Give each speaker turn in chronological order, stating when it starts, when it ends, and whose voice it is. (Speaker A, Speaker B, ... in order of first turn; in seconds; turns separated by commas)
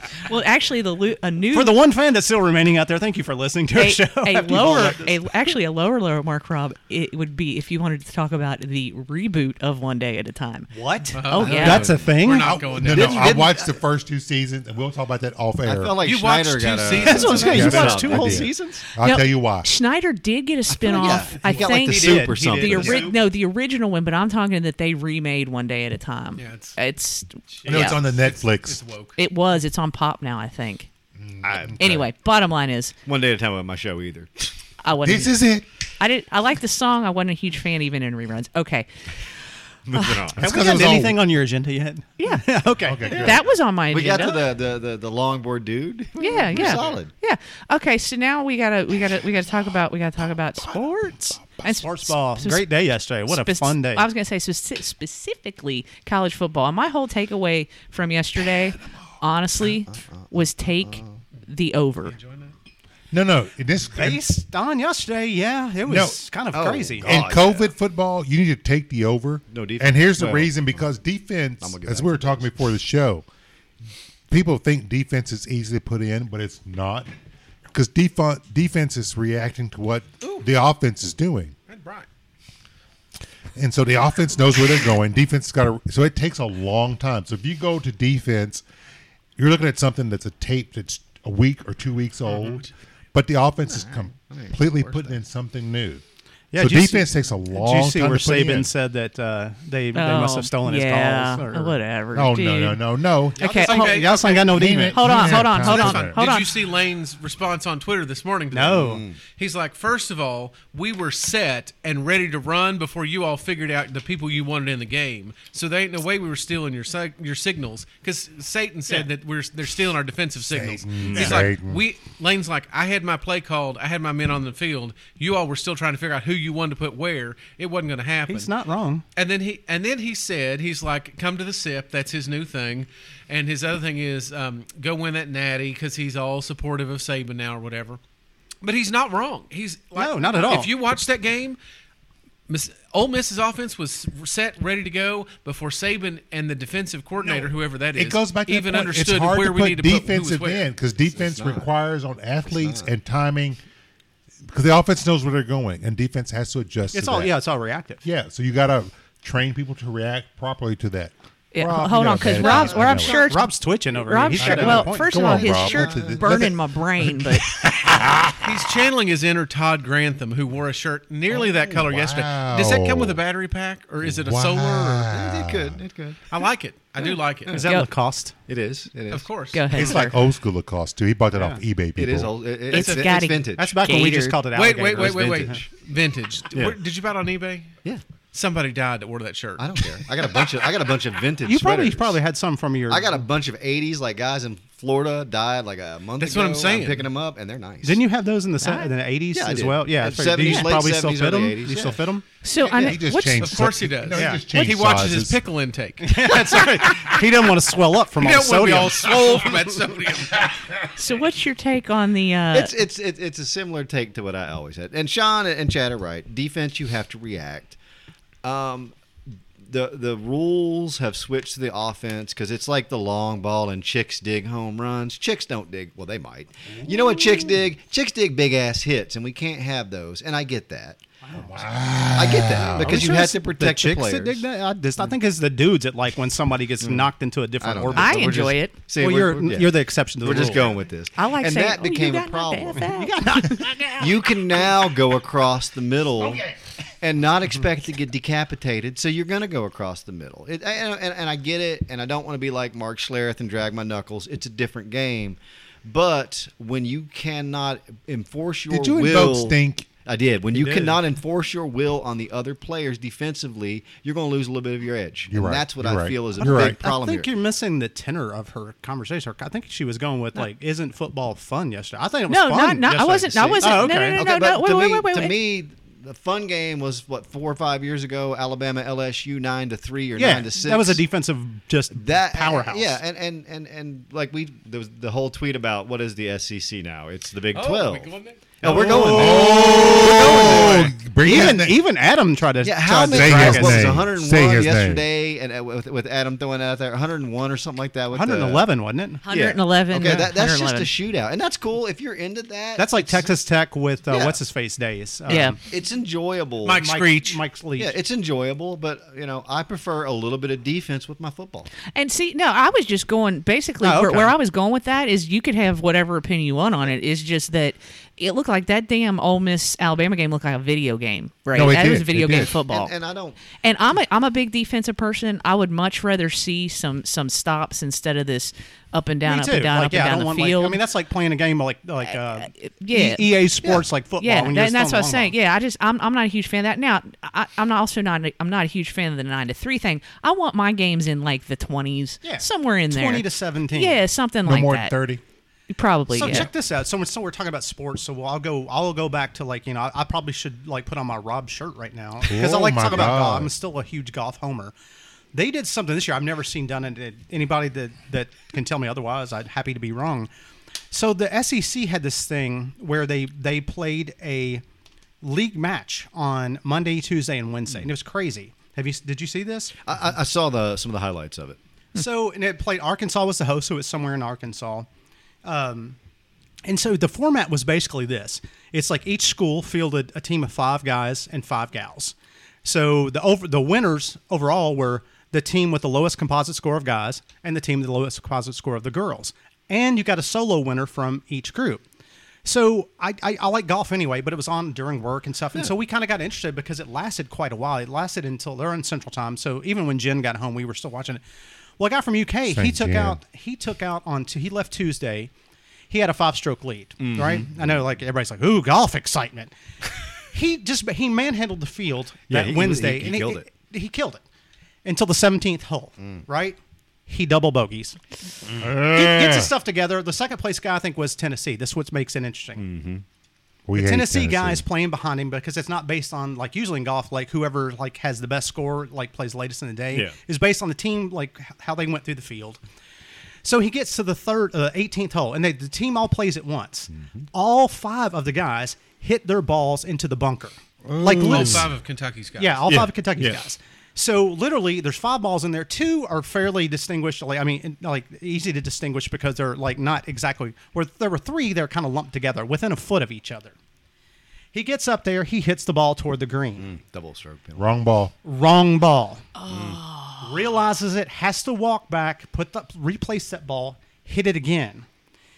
Speaker A: 0.2-1.8, Speaker B: 1.5-5.5, Speaker A: 3.7-11.9, Speaker B: 10.7-12.7, Speaker C: 11.1-13.5, Speaker D: 11.4-12.2, Speaker E: 12.4-15.9, Speaker D: 12.8-13.7, Speaker D: 15.6-18.8, Speaker C: 16.0-18.1, Speaker B: 17.0-18.7, Speaker E: 17.5-19.7, Speaker A: 19.0-28.0, Speaker D: 20.7-23.1, Speaker B: 21.0-23.1, Speaker C: 26.4-26.8, Speaker C: 27.5-29.2, Speaker E: 27.6-28.8, Speaker A: 29.2-30.9, Speaker E: 31.2-32.0, Speaker D: 31.4-32.0, Speaker A: 31.8-32.9, Speaker D: 33.0-34.5, Speaker A: 34.8-35.5, Speaker E: 35.0-35.6, Speaker A: 36.0-38.9, Speaker D: 39.9-40.4, Speaker E: 40.4-41.2, Speaker B: 40.4-43.4, Speaker A: 42.2-42.5, Speaker E: 42.8-43.4, Speaker A: 43.1-44.5, Speaker D: 43.9-47.1, Speaker A: 46.2-52.7, Speaker C: 46.5-47.0, Speaker B: 51.6-54.0, Speaker A: 53.3-62.1, Speaker D: 59.9-60.2, Speaker D: 60.8-61.2, Speaker C: 62.0-62.5, Speaker E: 63.1-64.2, Speaker B: 63.9-67.3, Speaker E: 65.8-66.2, Speaker D: 66.5-67.7, Speaker E: 67.0-73.2, Speaker D: 69.5-70.5, Speaker D: 71.6-72.5, Speaker E: 74.3-77.1, Speaker E: 77.7-81.5, Speaker C: 81.7-82.0, Speaker E: 83.5-88.6, Speaker E: 89.4-96.0, Speaker C: 92.3-92.7, Speaker D: 93.7-95.2, Speaker B: 96.5-101.8, Speaker E: 96.6-98.7, Speaker A: 99.9-102.8, Speaker E: 102.1-103.4, Speaker A: 103.4-104.1, Speaker C: 103.4-104.7, Speaker B: 103.4-105.5, Speaker E: 104.5-106.2, Speaker A: 104.9-106.5, Speaker C: 105.3-128.5, Speaker B: 108.5-109.0, Speaker D: 108.8-109.2, Speaker E: 120.5-121.8, Speaker D: 121.0-121.4, Speaker B: 128.3-129.0, Speaker C: 129.2-138.0, Speaker C: 138.6-141.6, Speaker B: 139.9-140.7, Speaker C: 142.5-150.7, Speaker E: 147.9-153.6, Speaker D: 151.1-151.7, Speaker D: 152.4-152.9, Speaker E: 154.5-157.3, Speaker B: 156.9-158.0, Speaker E: 158.0-163.2, Speaker A: 161.5-167.5, Speaker D: 162.3-163.2, Speaker B: 162.4-165.3, Speaker E: 164.4-168.5, Speaker D: 165.2-166.3, Speaker C: 168.4-175.1, Speaker E: 171.7-173.2, Speaker E: 174.0-175.8, Speaker D: 175.1-176.3, Speaker C: 176.3-177.6, Speaker B: 177.5-178.4, Speaker D: 178.5-179.3, Speaker C: 179.1-179.6, Speaker A: 179.5-180.1, Speaker E: 179.7-182.3, Speaker B: 179.8-180.1, Speaker B: 181.3-181.6, Speaker D: 181.9-184.1, Speaker A: 182.7-184.4, Speaker C: 182.7-183.0, Speaker B: 183.6-185.6, Speaker C: 184.5-187.7, Speaker D: 184.9-185.7, Speaker C: 188.3-190.0, Speaker D: 189.6-192.2, Speaker B: 191.4-193.2, Speaker D: 192.9-198.0, Speaker C: 196.2-197.1, Speaker B: 197.8-202.2, Speaker A: 198.6-198.9, Speaker D: 199.3-202.0, Speaker A: 200.4-200.7, Speaker A: 202.4-203.7, Speaker D: 202.7-203.0, Speaker E: 202.7-205.4, Speaker C: 203.4-207.2, Speaker B: 204.1-204.4, Speaker B: 206.0-209.2, Speaker C: 208.2-210.6, Speaker A: 210.9-212.7, Speaker D: 212.5-217.8, Speaker D: 218.4-218.9, Speaker D: 219.6-231.0, Speaker B: 231.2-231.6, Speaker E: 231.4-233.1, Speaker D: 232.1-234.4, Speaker B: 232.7-240.8, Speaker D: 236.8-242.9, Speaker A: 237.9-238.7, Speaker A: 241.1-243.6, Speaker B: 242.8-244.2, Speaker D: 244.0-267.3, Speaker E: 258.7-259.9, Speaker B: 260.5-261.0, Speaker E: 265.3-266.8, Speaker B: 266.4-274.2, Speaker A: 272.3-275.3, Speaker D: 273.4-281.0, Speaker B: 280.1-283.0, Speaker D: 281.9-291.5, Speaker C: 287.5-288.4, Speaker B: 288.6-294.0, Speaker E: 288.7-291.8, Speaker C: 290.4-290.9, Speaker D: 292.6-298.6, Speaker E: 293.1-295.0, Speaker B: 298.1-299.2, Speaker A: 299.2-300.9, Speaker D: 299.3-303.3, Speaker B: 302.8-305.6, Speaker D: 304.1-304.4, Speaker A: 305.3-305.6, Speaker D: 305.3-306.8, Speaker C: 306.6-307.4, Speaker B: 306.7-307.9, Speaker D: 307.8-311.7, Speaker A: 311.9-322.9, Speaker B: 313.8-314.4, Speaker E: 321.5-322.5, Speaker D: 322.6-323.4, Speaker A: 323.6-330.8, Speaker B: 329.2-335.3, Speaker A: 332.1-333.3, Speaker A: 334.2-344.9, Speaker B: 342.2-344.0, Speaker E: 344.4-345.2, Speaker A: 345.7-346.5, Speaker B: 346.1-354.7, Speaker E: 352.3-353.5, Speaker D: 352.9-353.2, Speaker B: 355.3-360.3, Speaker B: 360.9-364.6, Speaker B: 365.2-369.7, Speaker D: 369.8-371.6, Speaker B: 371.9-374.9, Speaker B: 375.4-375.9, Speaker B: 376.6-391.8, Speaker B: 392.4-401.2, Speaker B: 401.8-405.3, Speaker E: 402.5-403.2, Speaker B: 405.9-409.5, Speaker D: 407.0-407.8, Speaker B: 410.3-414.2, Speaker D: 412.3-413.5, Speaker B: 414.8-418.0, Speaker E: 418.6-419.5, Speaker B: 418.8-422.6, Speaker D: 422.6-423.0, Speaker E: 423.7-424.6, Speaker B: 423.7-432.6, Speaker B: 433.4-441.7, Speaker D: 436.9-437.2, Speaker E: 440.9-441.7, Speaker C: 441.2-442.6, Speaker B: 442.4-453.5, Speaker D: 442.7-443.4, Speaker B: 454.5-456.7, Speaker D: 456.6-457.7, Speaker E: 457.6-458.1, Speaker B: 458.2-459.3, Speaker A: 459.4-460.3, Speaker D: 459.5-459.8, Speaker B: 460.2-464.9